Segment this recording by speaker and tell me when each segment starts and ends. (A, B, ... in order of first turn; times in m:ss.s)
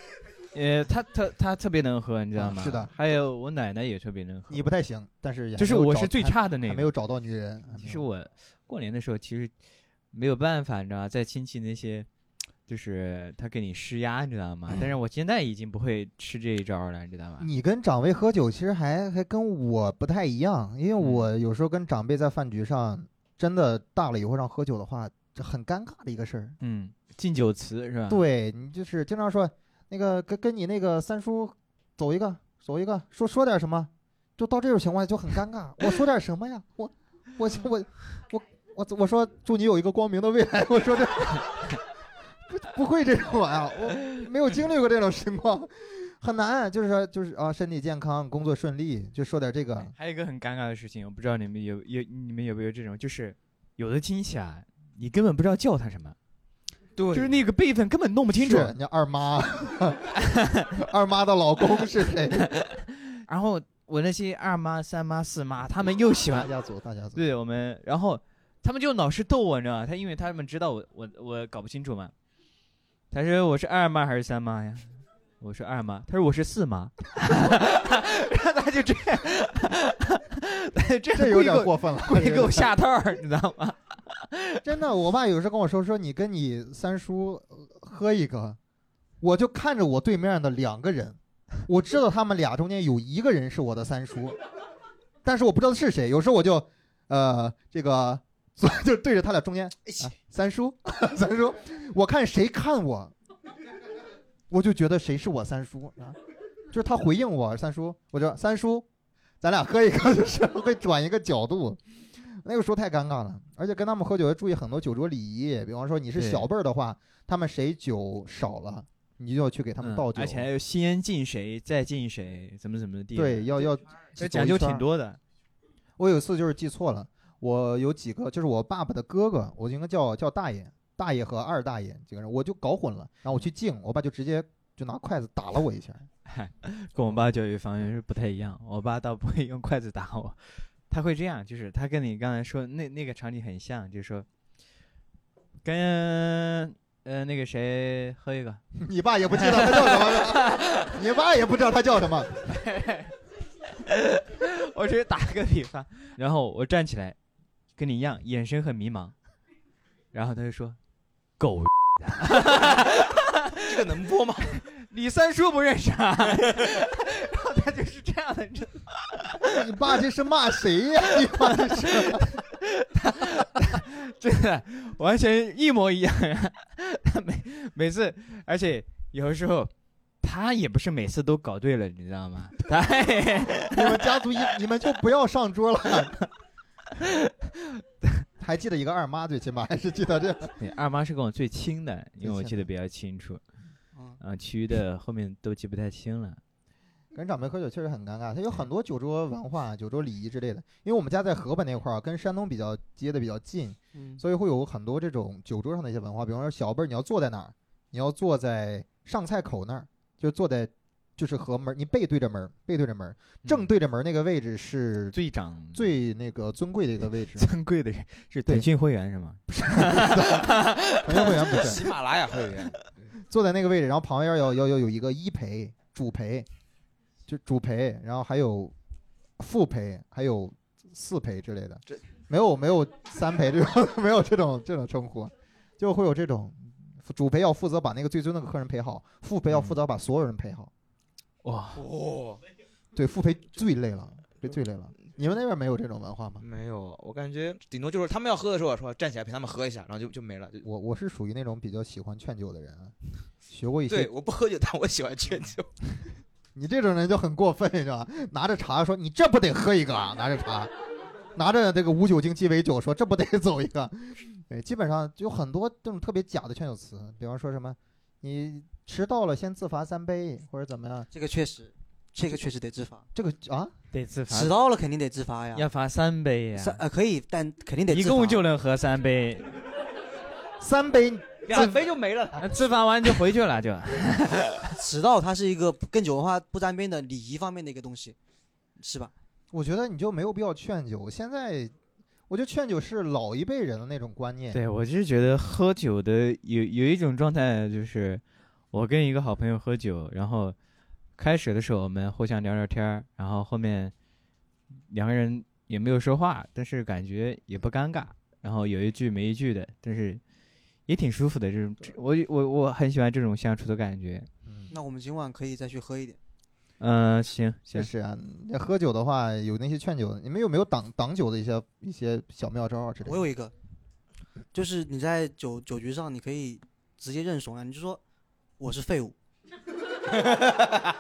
0:00.5-0:04.6 A
0:02.4-0:02.9 B
0:04.5-0:08.0 B
0:05.6-0:06.9 A
0:07.7-0:09.5 A
0:10.1-0:12.1 A
0:12.7-0:17.5 A
0:14.7-0:14.9 B
0:17.4-0:26.6 B
0:21.0-0:21.3 A
0:26.6-0:28.2 A
0:28.1-0:41.6 B
0:42.5-0:49.9 B
0:49.9-0:56.2 A
0:57.0-0:57.3 C
0:57.1-0:58.7 A
0:58.4-1:00.1 B
1:00.2-1:00.7 A
1:00.7-1:02.5 B
1:02.6-1:06.5 A
1:06.3-1:07.2 B
1:07.1-1:12.1 A
1:13.1-1:24.6 A
1:21.1-1:22.7 B
1:24.6-1:28.6 B
1:29.2-1:34.4 B
1:35.2-1:43.1 B
1:44.5-1:46.2 B
1:46.7-1:48.9 B
1:49.4-2:00.4 B
1:56.1-1:56.5 A
1:59.8-2:05.2 A
2:03.1-2:04.9 B
2:06.0-2:16.1 B
2:16.3-2:24.3 A
2:25.6-2:28.6 A
2:28.8-2:32.3 B
2:29.3-2:30.9 A
2:32.5-2:33.1 A
2:33.8-2:37.2 A
2:37.8-2:39.1 A
2:40.1-2:40.8 A
2:41.4-2:43.8 A
2:43.6-2:44.6 C
2:44.5-2:49.6 A
2:49.4-2:52.3 B
2:51.4-3:04.1 A
3:03.6-3:06.2 B
3:07.0-3:07.8 A
3:08.4-3:10.6 B
3:10.6-3:13.4 A
3:12.2-3:12.7 B
3:14.2-3:16.4 A
3:17.1-3:35.2 B
3:23.9-3:24.2 D
3:35.1-3:35.9 A
3:35.7-3:37.5 B
3:37.4-3:41.4 A
3:39.5-3:41.9 B
3:41.2-3:42.9 C
3:43.2-3:46.5 B
3:47.3-3:48.7 B
3:49.4-4:00.7 B
4:01.4-4:01.8 A
4:01.8-4:02.4 C
4:03.0-4:06.4 B
4:06.4-4:10.6 C
4:10.6-4:12.9 B
4:13.5-4:14.1 B
4:13.9-4:15.7 C
4:16.6-4:20.7 B
4:21.4-4:31.1 B
4:31.1-4:33.1 D
4:33.1-4:33.7 B
4:33.9-4:34.5 A
4:34.3-4:35.7 D
4:35.5-4:36.8 A
4:36.6-4:38.5 D
4:37.9-4:39.5 A
4:40.6-4:42.4 B
4:41.4-4:42.4 C
4:42.4-4:44.7 A
4:44.8-4:48.2 D
4:48.8-4:49.1 D
4:49.5-4:51.7 B
4:52.3-4:54.6 B
4:54.5-5:00.6 A
5:01.2-5:03.9 A
5:04.9-5:10.2 A
5:10.9-5:14.3 A
5:14.4-5:14.7 B
5:14.7-5:16.2 D
5:16.8-5:17.9 A
5:17.7-5:23.2 B
5:23.0-5:23.5 D
5:24.5-5:28.0 D
5:28.6-5:29.1 D
5:30.2-5:30.8 C